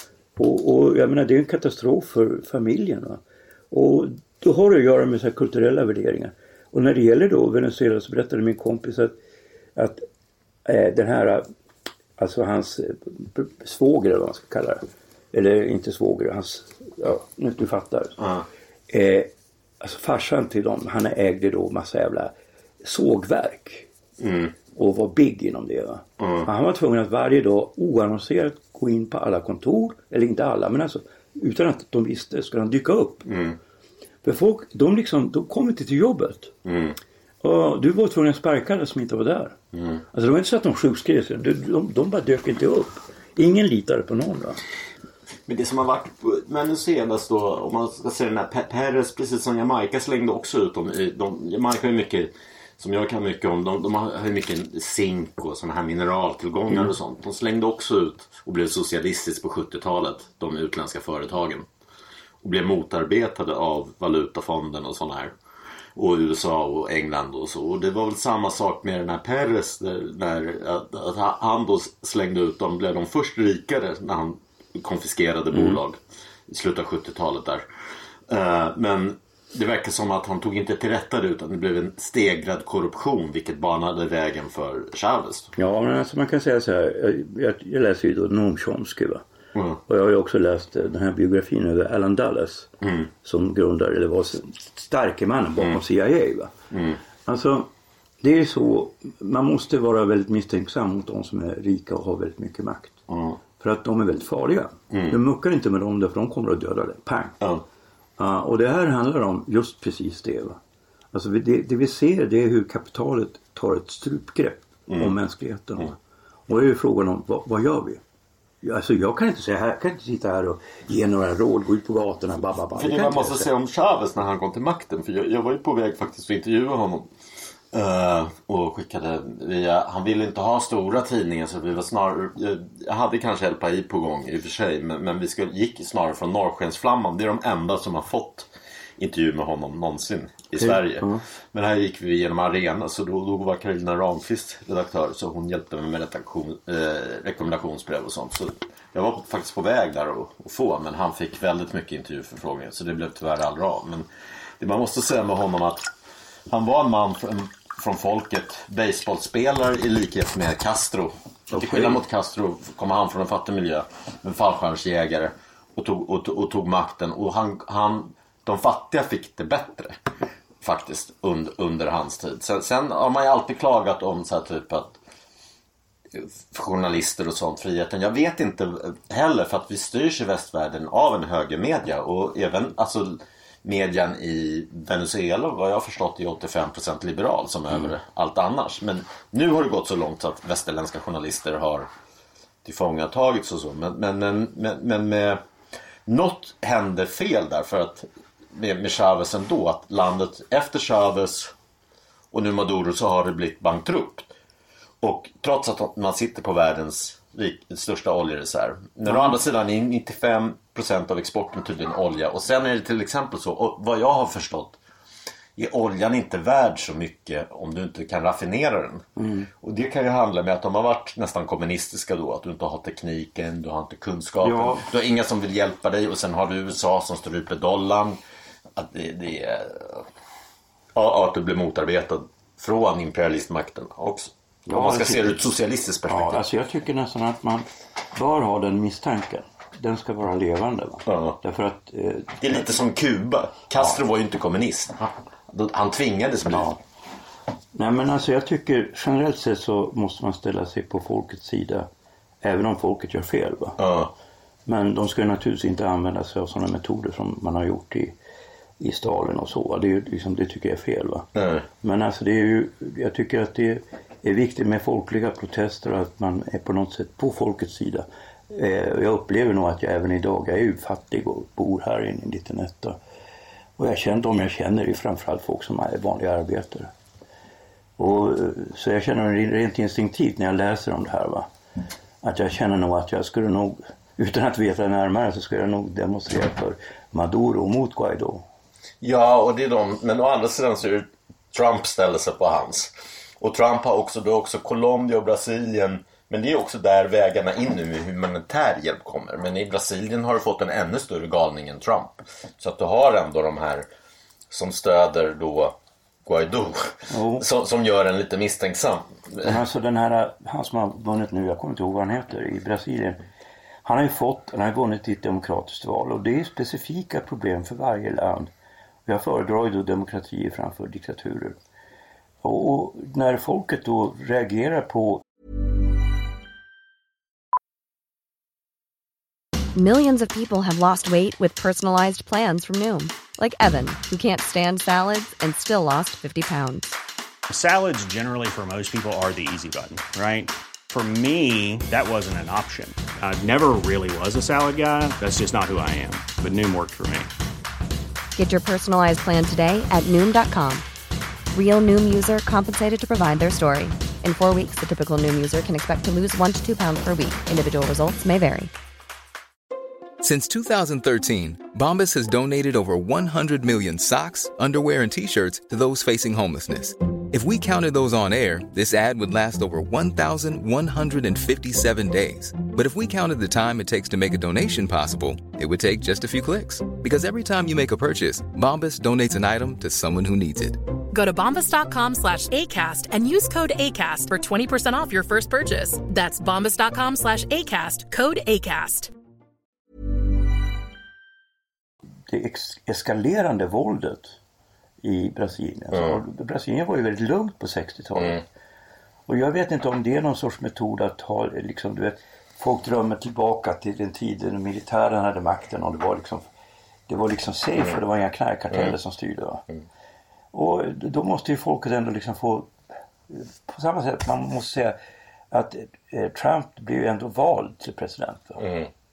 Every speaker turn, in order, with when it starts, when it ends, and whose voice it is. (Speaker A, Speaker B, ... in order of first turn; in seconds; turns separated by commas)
Speaker A: 0.4-9.1, Speaker A: 9.8-10.0, Speaker A: 10.7-11.4, Speaker A: 12.2-18.2, Speaker B: 18.2-18.4, Speaker A: 18.9-22.3, Speaker A: 22.8-23.9, Speaker B: 24.2-24.5, Speaker A: 24.7-33.2, Speaker B: 26.2-26.4, Speaker B: 33.2-33.6, Speaker A: 34.2-36.5, Speaker B: 36.6-37.0, Speaker A: 37.4-39.6, Speaker B: 39.7-40.0, Speaker A: 40.1-44.6, Speaker B: 45.5-61.7, Speaker B: 62.4-65.3, Speaker B: 66.0-77.6, Speaker A: 75.5-75.8, Speaker B: 78.3-85.5, Speaker A: 85.6-89.2, Speaker A: 89.9-92.7, Speaker A: 93.2-96.5, Speaker B: 96.7-97.0, Speaker A: 97.2-97.7, Speaker A: 98.2-103.0, Speaker B: 103.1-103.4, Speaker A: 103.6-107.4, Speaker A: 108.2-110.6, Speaker A: 111.1-118.0, Speaker B: 114.9-115.1, Speaker A: 118.6-123.5, Speaker B: 122.8-127.1, Speaker B: 127.7-154.1, Speaker A: 140.5-141.2, Speaker B: 154.6-155.9, Speaker B: 156.5-169.9, Speaker A: 161.5-162.0, Speaker B: 170.6-174.9, Speaker B: 176.1-191.9, Speaker B: 192.6-195.4, Speaker B: 196.1-201.5, Speaker B: 202.3-204.3, Speaker B: 205.0-214.8, Speaker B: 215.6-219.0, Speaker A: 219.2-219.5, Speaker B: 219.6-228.2, Speaker A: 224.4-224.9, Speaker B: 228.8-230.1, Speaker B: 230.9-236.4, Speaker A: 234.7-235.4, Speaker A: 236.1-242.7, Speaker B: 241.1-241.4, Speaker B: 242.4-246.7, Speaker A: 246.5-246.8, Speaker A: 247.7-251.9, Speaker A: 252.4-253.8, Speaker B: 253.8-254.1, Speaker A: 254.7-258.1, Speaker A: 258.8-261.3, Speaker B: 261.4-261.6, Speaker A: 261.8-273.0, Speaker A: 273.8-276.9, Speaker A: 278.0-281.5, Speaker A: 282.2-288.4, Speaker B: 289.0-303.9, Speaker B: 304.5-309.6, Speaker A: 307.1-307.4, Speaker A: 309.4-313.2, Speaker A: 313.9-318.5, Speaker A: 319.1-321.6, Speaker A: 322.4-325.2, Speaker C: 329.7-336.9, Speaker D: 337.5-347.3, Speaker C: 348.4-350.9, Speaker C: 351.5-358.7, Speaker E: 360.2-380.8, Speaker F: 381.1-389.1, Speaker A: 392.3-394.4, Speaker A: 395.0-398.4, Speaker B: 395.9-396.2, Speaker B: 398.1-398.4, Speaker A: 399.3-406.4, Speaker A: 407.1-409.6, Speaker A: 410.5-412.7, Speaker A: 413.3-415.0, Speaker A: 415.5-418.6, Speaker B: 418.6-418.9